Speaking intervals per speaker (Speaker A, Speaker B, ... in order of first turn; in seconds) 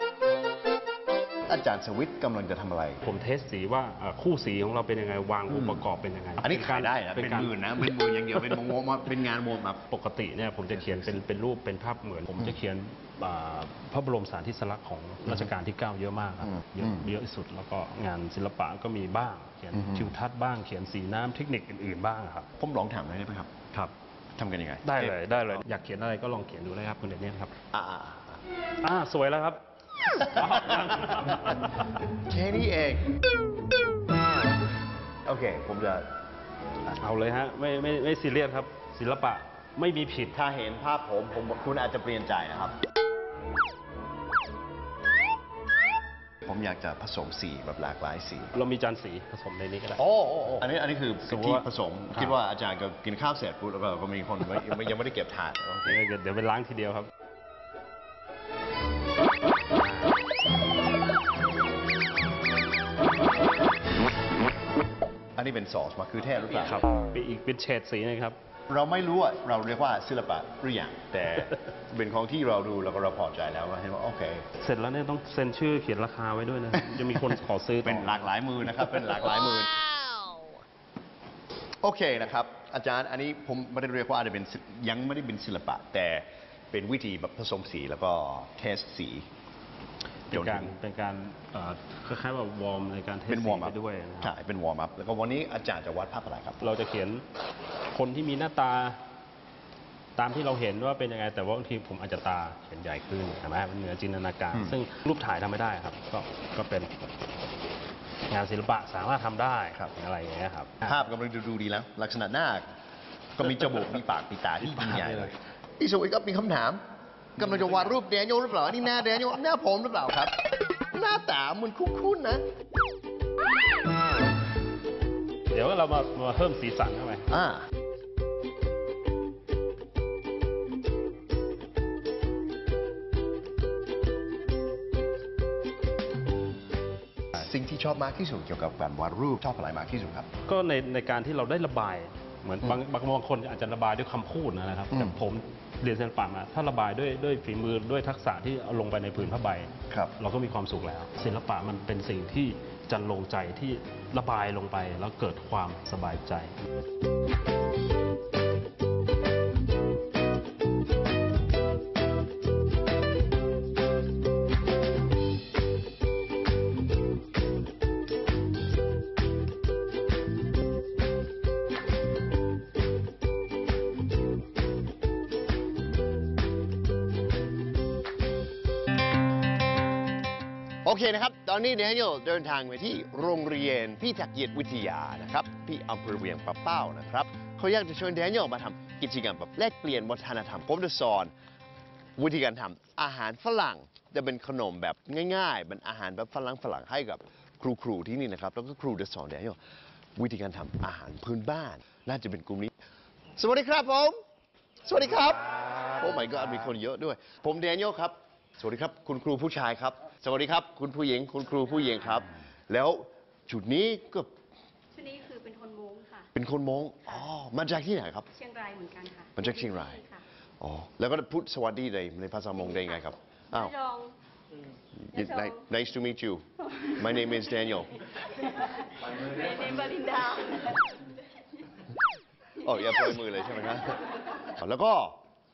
Speaker A: 1.5-3.0, 5.5-5.8, 6.4-9.8, 10.7-11.2, 16.4-17.1, 19.7-20.1, 22.6-25.2, 27.7-28.4, 30.2-31.5, 32.3-33.1, 35.2-36.1, 40.3-42.8, 46.4-48.5, 50.0-56.0, 65.3-66.8, 68.7-74.5, 77.8-79.7, 81.8-89.3, 90.3-90.7, 93.3-96.6, 110.9-112.7, 113.4-116.8, 117.3-120.3, 120.9-122.4, 127.3-127.7, 137.3-140.3, 144.9-145.2, 180.8-191.3, 192.2-199.6, 200.2-202.7, 203.4-204.2, 204.8-214.3, 216.3-218.3, 219.4-220.0, 220.6-223.7, 225.0-226.4, 226.9-227.9, 232.6-235.2
Speaker B: 3.0-8.6, 9.9-22.5, 24.8-27.5, 28.8-29.6, 30.1-31.8, 37.0-40.4, 48.5-50.0, 51.3-52.4, 55.8-57.1, 66.6-68.4, 74.6-78.2, 90.3-94.3, 96.6-97.2, 97.9-99.0, 100.2-107.0, 108.3-111.0, 114.6-115.3, 125.5-127.3, 140.4-156.6
Speaker C: 214.9-216.3, 218.3-220.2, 222.7-222.9, 223.5-224.1, 225.1-225.6, 227.0-227.5, 228.4-228.7, 229.3-230.8